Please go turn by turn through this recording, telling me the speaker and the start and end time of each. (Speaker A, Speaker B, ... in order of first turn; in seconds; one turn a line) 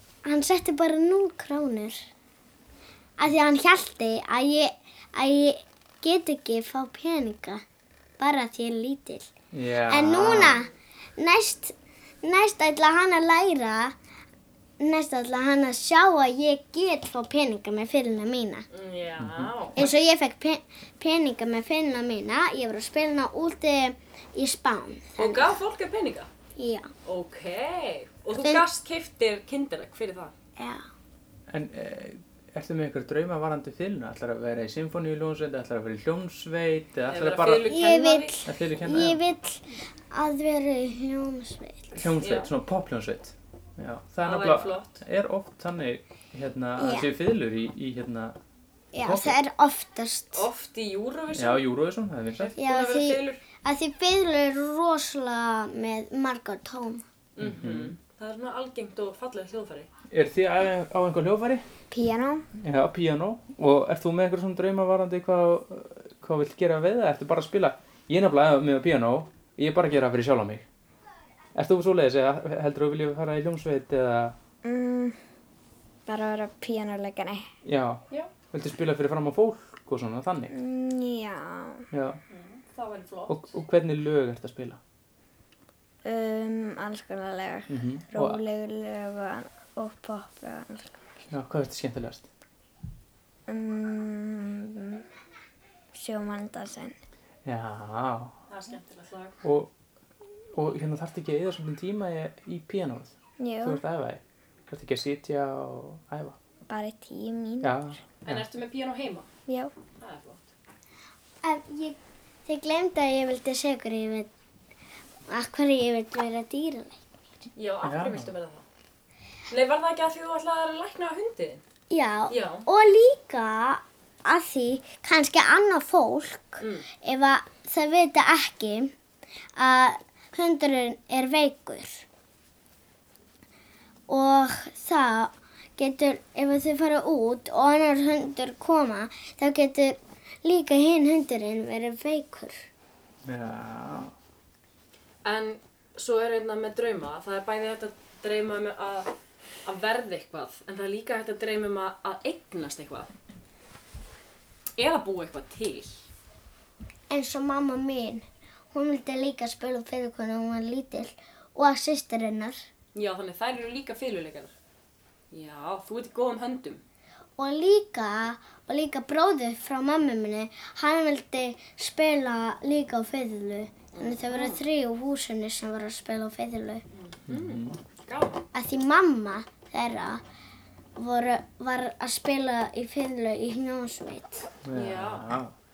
Speaker A: 0.2-2.0
Speaker A: 3.2-7.6
Speaker A: 8.2-9.3
Speaker B: 9.5-10.6
Speaker A: 9.8-13.9
Speaker A: 14.8-18.7
Speaker C: 18.7-19.9
Speaker B: 19.2-19.9
Speaker A: 19.8-25.5
Speaker C: 25.1-26.3
Speaker A: 26.6-26.9
Speaker C: 27.1-30.3
Speaker A: 28.3-28.6
Speaker B: 31.5-37.8
Speaker C: 37.1-38.4
Speaker A: 37.7-42.0
Speaker B: 38.4-39.2
Speaker B: 42.0-48.4
Speaker C: 42.2-42.5
Speaker C: 44.2-45.0
Speaker A: 46.8-47.1
Speaker A: 48.9-50.5
Speaker B: 49.0-49.4
Speaker C: 50.3-51.6
Speaker B: 51.3-52.5
Speaker C: 52.3-53.4
Speaker A: 52.6-57.0
Speaker C: 57.4-59.9
Speaker B: 57.4-57.9
Speaker B: 60.1-61.6
Speaker D: 61.9-62.4
Speaker B: 62.6-70.7
Speaker B: 71.5-74.3
Speaker D: 74.6-75.2
Speaker D: 76.1-77.5
Speaker B: 77.6-80.5
Speaker D: 80.5-81.8
Speaker B: 81.9-82.2
Speaker C: 82.3-83.4
Speaker B: 83.3-84.8
Speaker D: 86.0-91.0
Speaker B: 87.7-88.4
Speaker B: 91.3-92.3
Speaker D: 93.5-95.0
Speaker D: 95.9-97.0
Speaker B: 97.4-98.3
Speaker C: 98.5-99.3
Speaker B: 99.4-99.7
Speaker B: 100.5-106.4
Speaker D: 103.4-103.8
Speaker D: 106.7-107.6
Speaker B: 107.6-108.5
Speaker C: 108.2-109.3
Speaker C: 110.0-110.5
Speaker A: 111.4-114.3
Speaker A: 115.3-117.0
Speaker C: 117.5-118.7
Speaker B: 117.8-118.3
Speaker C: 119.5-121.6
Speaker A: 121.9-128.9
Speaker C: 122.3-122.7
Speaker C: 126.6-126.8
Speaker A: 129.6-132.0
Speaker A: 134.1-142.5
Speaker B: 143.2-144.1
Speaker C: 145.2-149.1
Speaker C: 149.6-153.1
Speaker C: 154.8-156.1
Speaker A: 157.1-162.6
Speaker C: 162.9-164.6
Speaker C: 165.3-166.8
Speaker A: 167.4-176.8
Speaker C: 173.9-174.6
Speaker C: 176.9-178.4
Speaker B: 177.3-177.8
Speaker A: 178.5-180.2
Speaker A: 180.9-184.5
Speaker B: 184.6-185.5
Speaker C: 184.7-185.4